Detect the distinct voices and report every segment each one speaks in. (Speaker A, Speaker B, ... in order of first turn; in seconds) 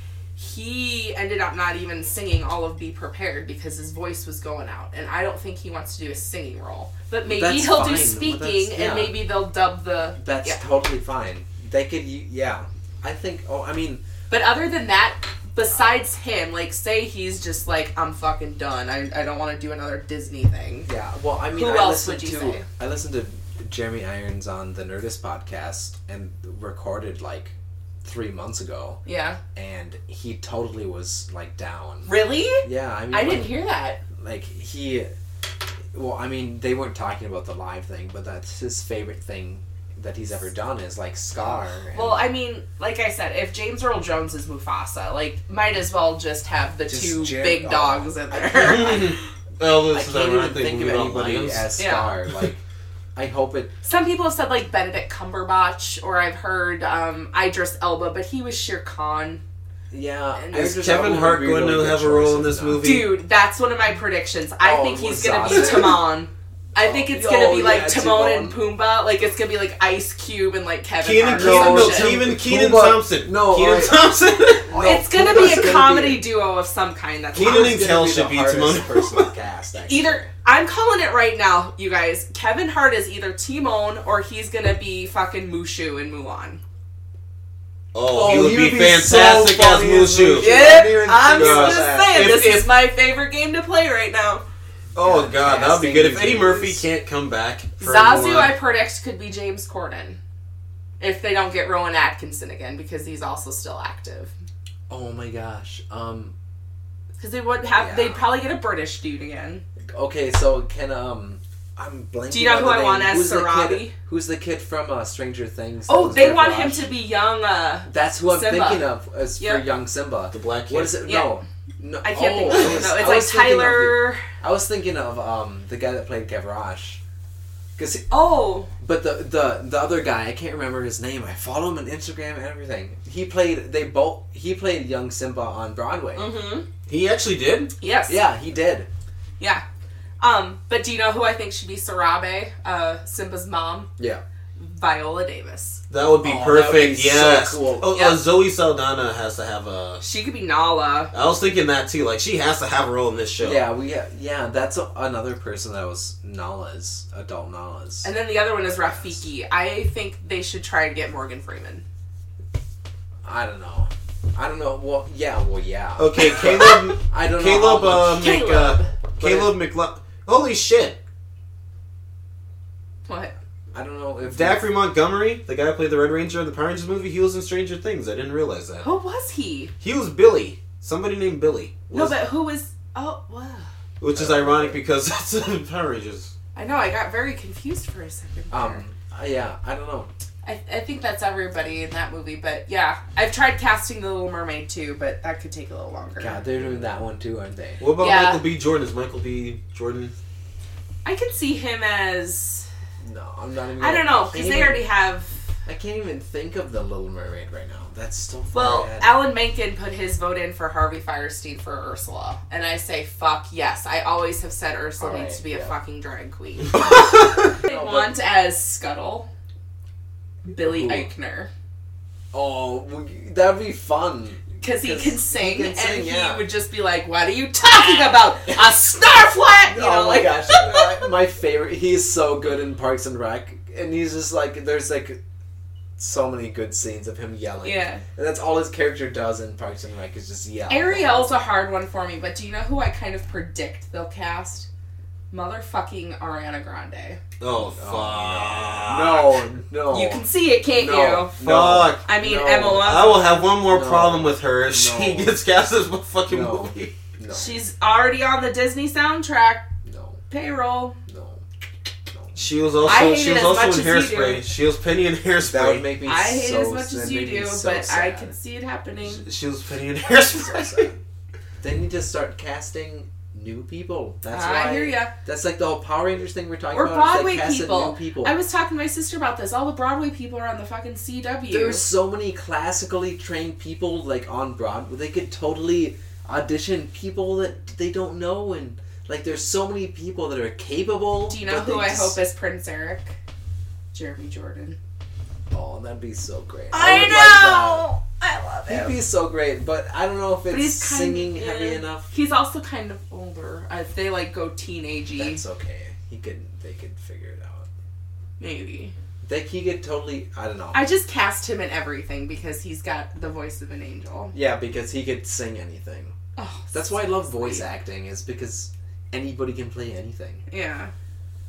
Speaker A: 0.4-10.6, 14.3-20.9, 21.6-22.6, 29.1-29.4, 32.1-34.0, 41.5-49.2, 51.8-52.1, 53.8-59.4, 60.4-60.8, 62.8-72.2, 74.8-77.9, 79.9-86.6, 90.4-94.4, 97.8-100.2, 101.0-104.3, 107.2-109.6, 112.3-113.9, 115.9-119.7, 121.0-121.4, 122.0-124.2, 128.1-128.7, 136.2-136.7, 137.8-138.2, 139.4-139.6, 140.2-143.9, 144.6-145.8, 147.9-148.2, 150.0-151.1, 158.0-161.8, 166.4-166.9, 168.1-168.9, 173.1-173.3, 178.8-179.7, 181.9-183.7, 186.6-188.8, 190.4-196.4, 198.0-198.4, 201.1-202.7, 203.8-205.4, 208.5-219.3, 220.5-221.5, 224.6-231.1, 237.6-238.0, 240.7-244.7, 245.3-247.2, 249.9-251.4, 252.1-253.3, 257.3-259.7, 260.3-261.0, 262.8-264.4, 266.1-269.2, 274.3-275.1, 276.7-281.9, 291.3-293.2, 293.9-294.8, 296.7-299.0, 300.5-305.4, 308.4-308.9, 310.7-314.3, 316.4-317.7, 320.5-320.9
Speaker B: 7.3-9.2, 10.2-14.0, 20.9-29.0, 29.6-33.6, 34.1-35.1, 35.9-42.3, 46.9-49.1, 49.9-52.6, 53.2-53.7, 59.9-62.9, 64.6-66.0, 66.8-68.6, 71.3-74.0, 74.7-76.2, 77.3-80.3, 88.1-91.9, 95.0-96.8, 104.9-106.3, 107.7-108.2, 109.9-116.9, 117.9-127.0, 127.8-128.1, 128.8-136.3, 138.1-138.9, 146.2-147.9, 153.4-158.1, 158.7-159.2, 163.2-168.3, 169.2-169.6, 173.7-174.7, 184.1-184.8, 188.5-190.1, 196.2-197.8, 203.0-204.8, 205.7-209.2, 215.0-215.8, 217.6-218.1, 220.6-221.1, 222.3-226.5, 228.2-228.7, 229.7-235.2, 236.0-241.5, 247.7-255.4, 256.3-257.6, 259.8-260.2, 261.1-261.4, 262.1-262.4, 265.4-268.3, 270.2-271.0, 271.6-278.4, 281.5-292.2, 295.5-297.9, 298.7-302.1, 305.2-307.7, 309.2-310.8, 314.3-316.1, 316.7-320.5
Speaker C: 48.5-51.7, 60.5-63.1, 71.0-74.8, 77.3-79.3, 87.9-92.7, 95.0-98.6, 120.3-121.0, 122.5-123.0, 136.9-137.7, 145.9-150.0, 151.1-153.7, 166.0-171.0, 174.3-178.9, 179.8-182.2, 184.0-186.3, 197.8-200.1, 216.8-217.4, 247.4-249.4, 251.4-252.1, 252.7-257.0, 262.4-265.9, 269.0-270.9